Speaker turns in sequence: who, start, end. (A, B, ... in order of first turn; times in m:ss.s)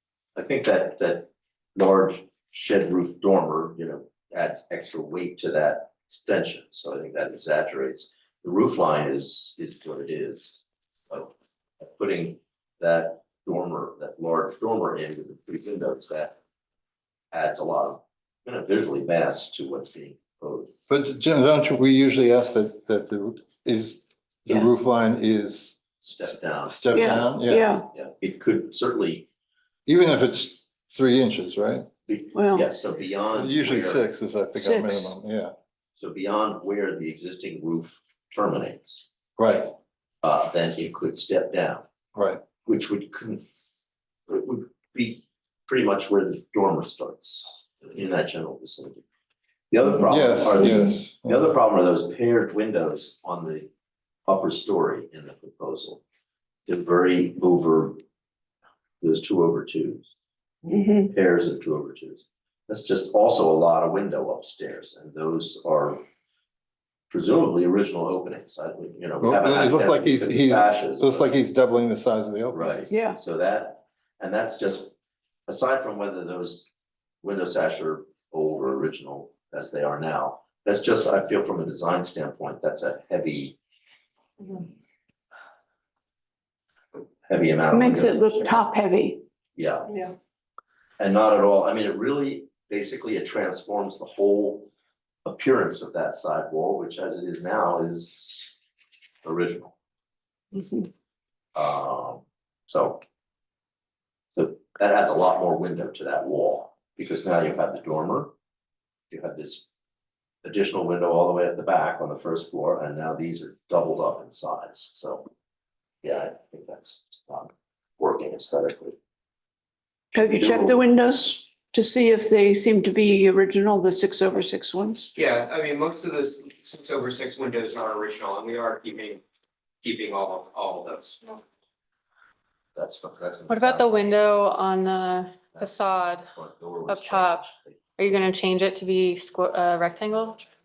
0:00.3-0:16.4 A
0:17.3-0:20.8 A
0:20.9-0:25.8 B
0:26.0-0:26.8 A
0:26.6-0:27.7 B
0:26.9-0:27.9 C
0:27.9-0:29.3 A
0:29.8-0:31.9 B
0:32.0-0:34.0 A
0:32.3-0:32.7 C
0:33.3-0:35.5 B
0:34.5-0:35.1 C
0:36.0-0:39.1 A
0:39.4-0:39.7 B
0:40.2-0:41.8 A
0:42.1-0:42.4 B
0:42.6-0:49.0 A
0:49.7-0:53.7 A
0:50.0-0:51.5 B
0:54.3-0:56.0 A
0:56.7-0:58.0 A
0:59.0-1:00.1 A
1:00.6-1:01.1 C
1:01.0-1:06.0 A
1:07.1-1:11.3 A
1:09.2-1:12.8 B
1:12.5-1:14.9 A
1:12.9-1:13.2 C
1:15.5-1:16.7 A
1:17.2-1:23.6 A
1:27.3-1:28.5 A
1:27.7-1:29.2 C
1:29.5-1:30.0 A
1:31.0-1:34.7 A
1:35.2-1:38.5 A
1:39.2-1:39.7 A
1:41.5-1:43.0 A
1:44.3-1:48.3 A
1:49.1-1:49.7 A
1:50.4-1:55.3 A
1:56.0-1:59.0 A
2:00.1-2:05.1 C
2:00.3-2:00.8 A
2:05.1-2:09.2 D
2:09.8-2:11.4 D
2:12.7-2:14.1 A
2:13.5-2:16.3 E
2:15.5-2:18.3 A
2:16.9-2:20.4 E